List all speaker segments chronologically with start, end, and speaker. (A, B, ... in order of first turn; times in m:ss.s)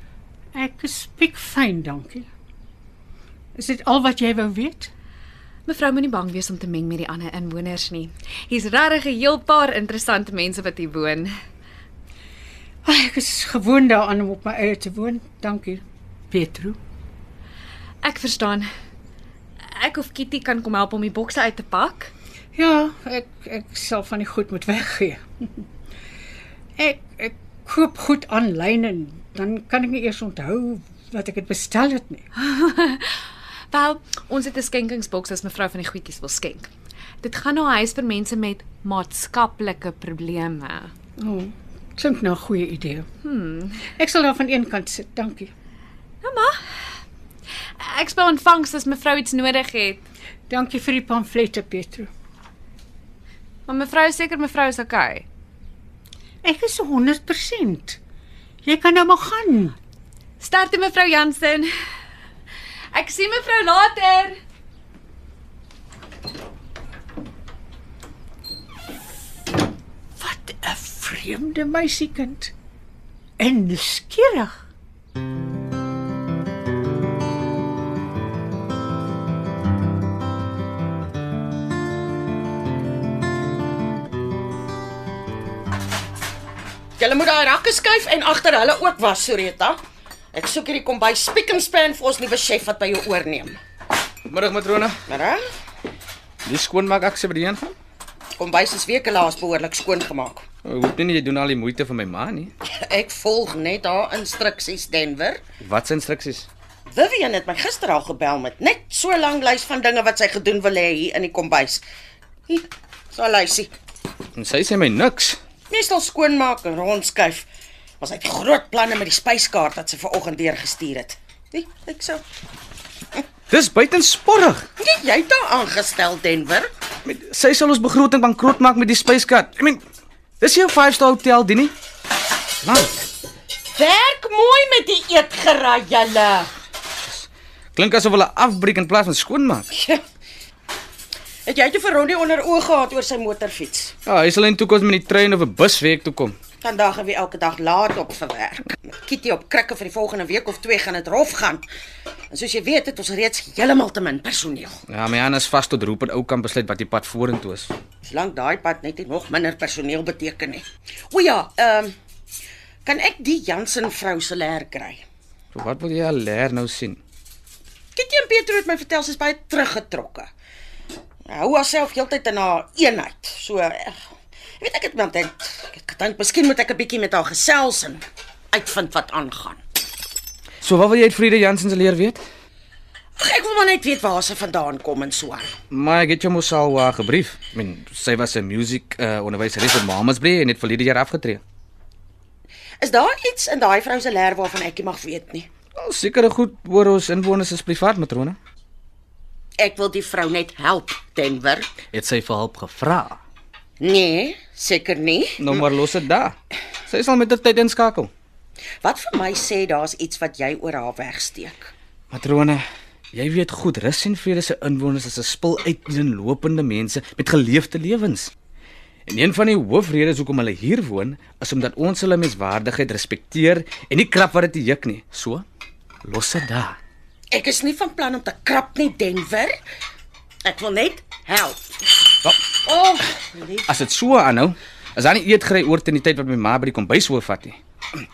0:00.5-0:02.3 A
0:03.6-0:04.9 A
0:05.7-0:11.3 B
0:12.8-0:16.8 A
0:18.0-0:18.7 B
0:19.8-0:22.1 B
0:22.6-0:25.2 A
0:26.8-0:32.2 A
0:32.4-0:33.1 B
0:33.7-0:36.7 B
0:37.2-0:40.9 B
0:41.2-0:43.1 A
0:43.2-0:43.9 B
0:44.0-0:45.5 A
0:46.2-0:46.6 B
0:47.8-0:50.1 B
0:50.5-0:52.1 A
0:53.7-0:55.2 B
0:56.4-0:58.0 A
0:58.6-0:59.8 A
1:00.4-1:01.7 B
1:02.9-1:04.4 B
1:10.2-1:12.5 A
1:13.4-1:14.6 A
1:27.0-1:29.8 C
1:30.3-1:33.6 C
1:34.3-1:35.0 D
1:35.1-1:35.4 C
1:36.4-1:37.8 D
1:38.4-1:40.4 C
1:40.6-1:42.5 D
1:42.7-1:45.4 C
1:45.6-1:46.5 D
1:46.9-1:51.8 C
1:52.5-1:53.7 C
1:54.4-1:55.4 D
1:55.7-1:57.5 C
1:58.0-2:02.2 C
2:03.5-2:04.7 D
2:04.8-2:06.7 C
2:07.1-2:09.8 D
2:10.4-2:11.7 D
2:12.6-2:13.1 D
2:13.8-2:16.5 C
2:17.1-2:19.7 D
2:19.7-2:20.0 C
2:21.5-2:23.9 C
2:24.1-2:26.3 D
2:26.6-2:31.7 C
2:32.3-2:34.8 C
2:34.9-2:37.7 D
2:38.0-2:41.9 C
2:42.8-2:45.0 C
2:45.5-2:47.0 D
2:48.0-2:50.3 C
2:51.3-2:54.0 C
2:54.6-2:59.6 C
3:00.6-3:02.2 D
3:03.2-3:05.5 C
3:05.7-3:11.4 D
3:12.8-3:15.5 C
3:15.8-3:18.4 D
3:19.6-3:21.7 C
3:21.9-3:23.2 D
3:23.8-3:25.6 C
3:25.4-3:26.4 D
3:26.9-3:28.1 D
3:28.8-3:31.7 C
3:32.1-3:32.6 D
3:33.1-3:38.3 D
3:39.1-3:45.4 D
3:46.0-3:46.8 D
3:47.3-3:49.6 C
3:50.4-3:51.6 C
3:52.6-3:53.7 C
3:53.7-3:57.6 D